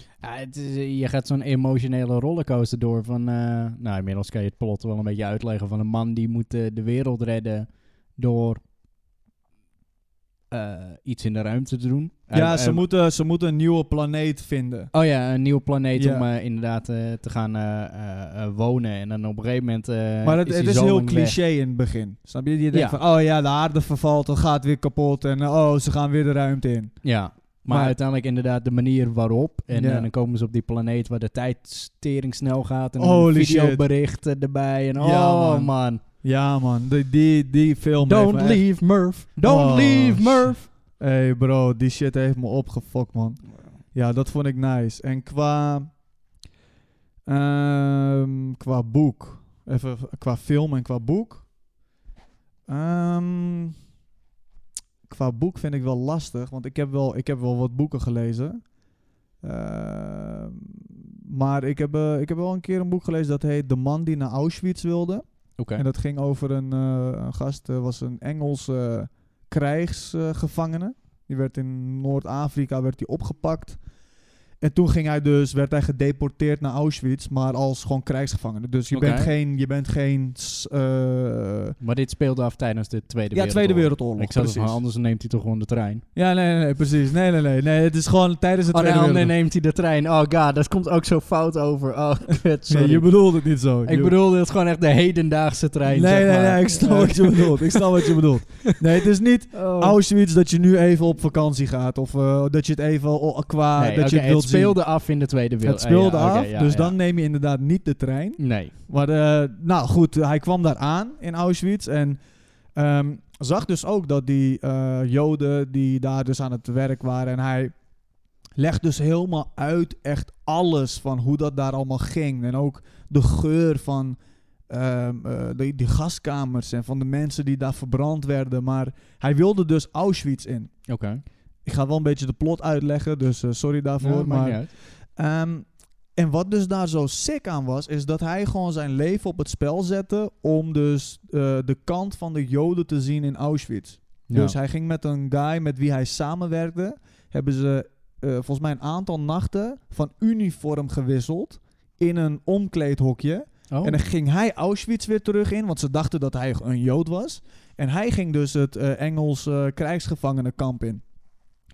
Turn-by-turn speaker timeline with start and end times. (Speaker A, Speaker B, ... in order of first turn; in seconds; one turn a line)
Speaker A: 0.2-8.6
Speaker A: 10.5-12.8
Speaker B: 12.3-14.9
Speaker A: 14.9-21.4
Speaker B: 15.9-16.3
Speaker B: 20.2-27.1
Speaker A: 22.7-23.0
Speaker A: 27.0-36.0
Speaker B: 27.7-28.0
Speaker B: 29.7-30.1
Speaker B: 33.0-33.9
Speaker B: 35.0-38.9
Speaker A: 38.0-40.7
Speaker B: 39.4-45.9
Speaker B: 47.3-51.5
Speaker B: 52.7-53.8
Speaker B: 55.1-58.6
Speaker B: 59.4-73.8
Speaker A: 65.6-65.8
Speaker B: 74.6-81.8
Speaker A: 78.9-79.3
Speaker A: 81.8-86.0
Speaker B: 83.3-84.8
Speaker B: 86.1-89.3
Speaker A: 88.7-98.1
Speaker B: 92.7-94.2
Speaker B: 95.8-104.9
Speaker A: 99.5-100.0
Speaker A: 103.8-107.0
Speaker B: 105.6-112.2
Speaker A: 108.4-108.8
Speaker B: 112.8-117.7
Speaker B: 118.5-130.9
Speaker A: 130.9-131.2
Speaker B: 131.6-161.0
Speaker A: 134.0-134.7
Speaker A: 144.3-144.6
Speaker A: 153.7-154.0